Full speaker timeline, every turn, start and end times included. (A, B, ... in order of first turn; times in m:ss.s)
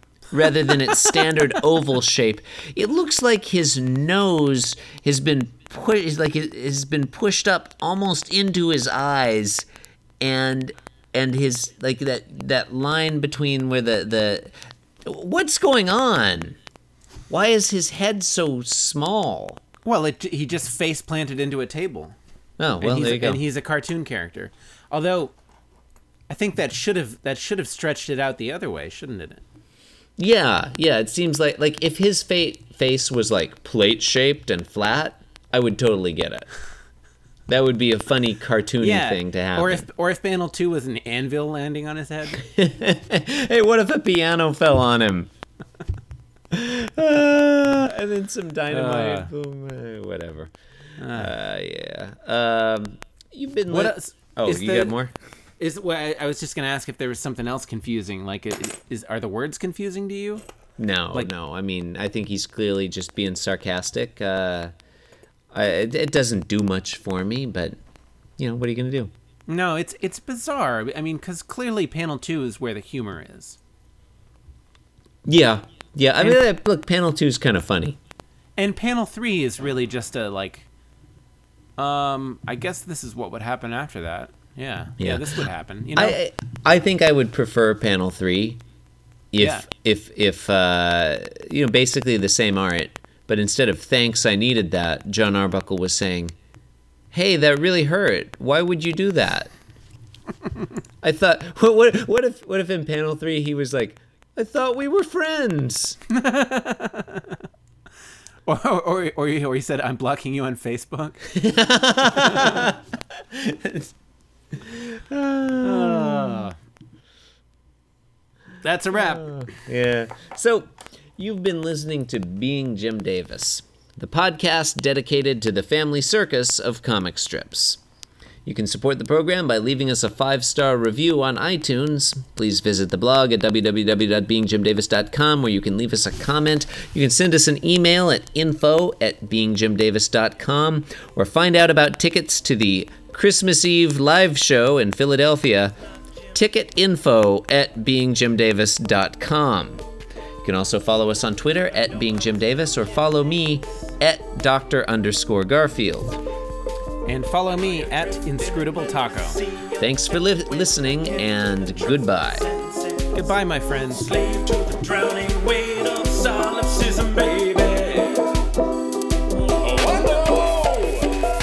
0:00.3-0:09.7 A
0:10.2-0:14.5 A
0:15.0-0:16.6 A
0:17.3-0:19.6 A
0:19.8-0:22.2 B
0:22.6-0:23.4 A
0:22.8-0:25.3 B
0:26.3-0:29.4 B
0:30.2-0:36.5 A
0:37.5-0:39.8 A
0:38.8-0:42.4 B
0:42.4-0:45.3 A
0:46.5-0:50.5 A
0:48.7-0:49.3 B
0:51.0-0:51.3 B
0:51.1-0:55.1 A
0:53.7-0:55.0 B
0:55.6-1:00.4 B
1:00.8-1:04.7 A
1:05.5-1:07.8 A
1:08.4-1:09.1 A
1:09.5-1:13.6 B
1:15.2-1:18.0 A
1:18.6-1:20.7 B
1:21.8-1:26.2 B
1:25.0-1:25.2 A
1:26.0-1:28.6 A
1:29.3-1:36.3 A
1:29.4-1:29.7 B
1:37.1-1:39.5 A
1:41.0-1:46.0 A
1:46.1-1:47.4 B
1:48.5-1:51.2 B
1:51.3-1:53.9 A
1:52.1-1:52.7 B
1:54.5-1:56.5 A
1:55.6-1:56.6 B
1:58.6-1:59.4 B
1:58.9-2:07.8 A
2:08.5-2:25.7 A
2:26.3-2:29.8 A
2:30.4-2:36.2 A
2:37.0-2:39.4 B
2:39.8-2:42.5 A
2:43.1-2:44.3 B
2:44.2-2:48.2 C
2:49.6-2:51.1 C